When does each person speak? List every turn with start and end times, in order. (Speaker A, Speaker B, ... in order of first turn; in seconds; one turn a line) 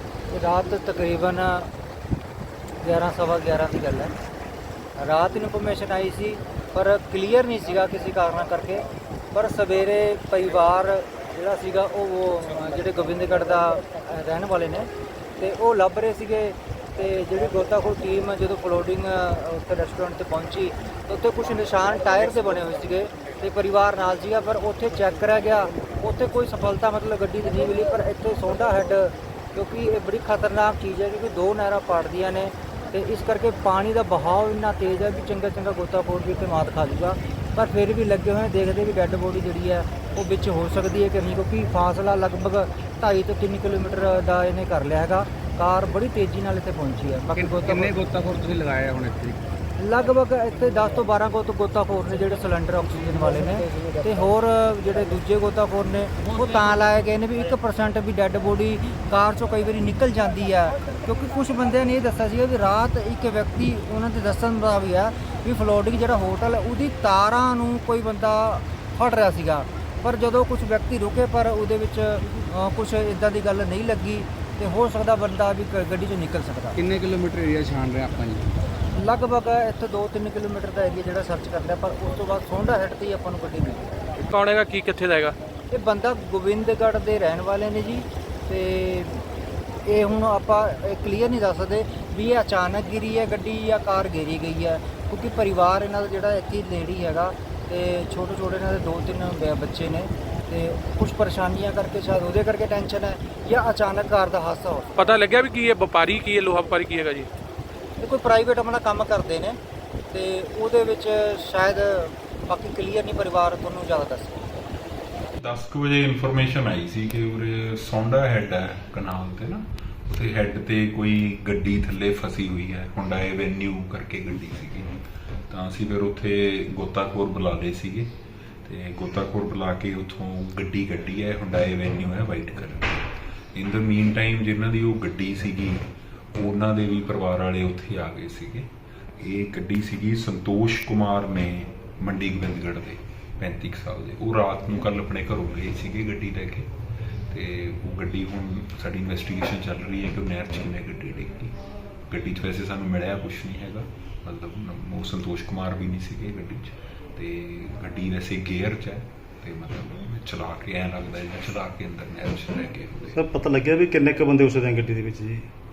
Speaker A: 0.3-1.7
Speaker A: 2.8-4.1
Speaker A: 5.0-47.9
Speaker B: 47.4-49.4
Speaker A: 49.8-76.8
Speaker B: 76.8-78.5
Speaker A: 78.9-83.9
Speaker C: 84.2-85.4
Speaker A: 85.7-89.2
Speaker A: 89.9-104.9
Speaker C: 105.0-107.3
Speaker A: 108.0-109.6
Speaker A: 110.1-114.5
Speaker D: 115.4-128.1
Speaker D: 128.7-146.7
Speaker D: 147.3-151.6
Speaker D: 152.1-163.2
Speaker E: 163.1-165.5